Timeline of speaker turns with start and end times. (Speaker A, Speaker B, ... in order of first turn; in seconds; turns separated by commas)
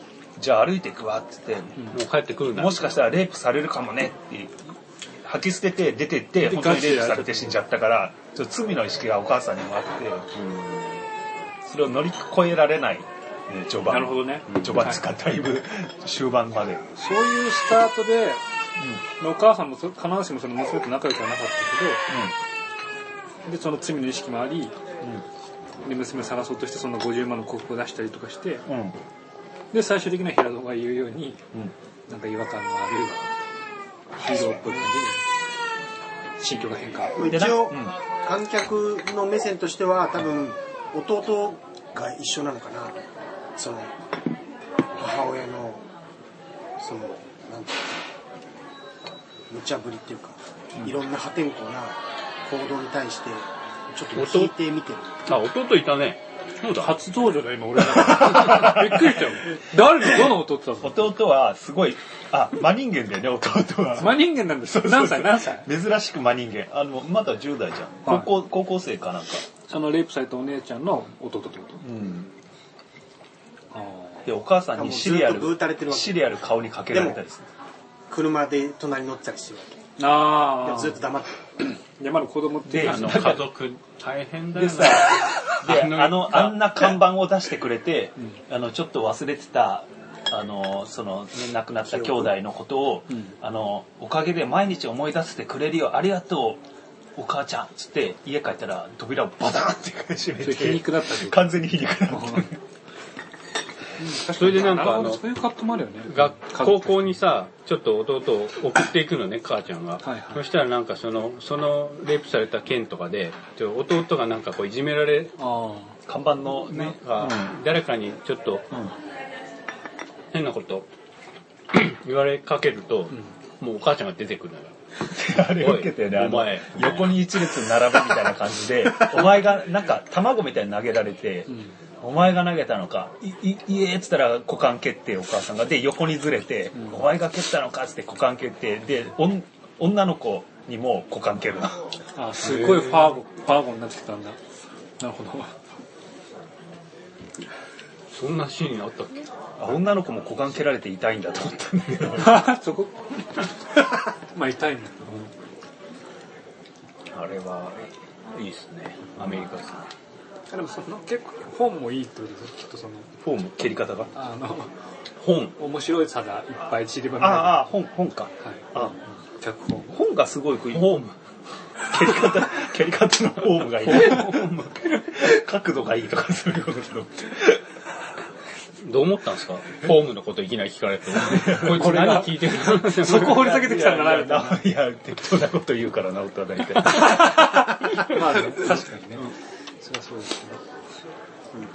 Speaker A: 0.4-1.8, Speaker B: 1.9-3.0, Speaker A: 2.5-4.7, Speaker A: 5.2-10.3, Speaker C: 6.4-7.6, Speaker B: 10.3-11.1, Speaker A: 11.7-16.9, Speaker C: 13.9-15.0, Speaker B: 14.5-14.9, Speaker C: 17.0-18.4, Speaker C: 19.2-22.0, Speaker C: 23.4-24.8, Speaker C: 25.8-28.6, Speaker A: 28.7-29.0, Speaker C: 29.7-31.4, Speaker C: 32.1-33.3, Speaker C: 34.2-35.2, Speaker D: 34.3-34.8, Speaker C: 36.4-37.3, Speaker D: 37.1-43.0, Speaker A: 37.2-38.0, Speaker D: 43.6-44.0, Speaker D: 45.0-45.9, Speaker D: 46.8-48.0, Speaker D: 49.5-55.2, Speaker B: 54.1-54.5, Speaker B: 55.3-57.0, Speaker C: 56.8-61.0, Speaker A: 58.1-58.7, Speaker A: 60.8-69.5, Speaker C: 64.0-65.7, Speaker C: 69.7-71.8, Speaker A: 71.8-72.3, Speaker C: 73.7-74.3, Speaker A: 74.2-77.5, Speaker D: 74.8-76.2, Speaker D: 76.9-77.2, Speaker D: 78.1-79.9, Speaker C: 80.0-81.0, Speaker D: 80.5-81.4, Speaker C: 82.0-83.4, Speaker A: 82.7-83.4, Speaker B: 82.8-87.0, Speaker A: 84.6-96.6, Speaker D: 91.9-92.3, Speaker A: 97.2-102.6, Speaker C: 100.4-101.6, Speaker C: 102.1-102.5, Speaker C: 104.0-107.0, Speaker B: 104.3-105.2, Speaker B: 106.1-115.4, Speaker C: 110.0-110.4, Speaker C: 115.4-116.0, Speaker A: 116.1-117.5, Speaker B: 116.7-118.7, Speaker B: 120.3-120.9, Speaker B: 121.7-124.8, Speaker A: 125.1-141.8, Speaker B: 125.3-127.2, Speaker C: 136.8-137.0, Speaker C: 142.2-144.4, Speaker B: 142.4-143.2, Speaker C: 145.0-145.6, Speaker B: 148.1-149.3, Speaker A: 149.6-152.5, Speaker C: 152.2-153.2, Speaker C: 154.3-155.1, Speaker B: 157.1-159.9, Speaker A: 159.2-159.5, Speaker C: 160.5-163.1, Speaker A: 163.2-164.2, Speaker C: 164.1-164.8, Speaker B: 165.2-165.6, Speaker C: 165.6-167.7, Speaker A: 167.2-168.9, Speaker C: 168.4-169.9, Speaker A: 169.9-171.0, Speaker B: 170.7-171.2, Speaker A: 171.9-177.6, Speaker B: 173.8-175.0, Speaker B: 178.8-183.8, Speaker A: 181.2-182.3, Speaker C: 181.6-184.7, Speaker A: 183.3-187.4, Speaker C: 187.0-187.4, Speaker C: 187.9-190.6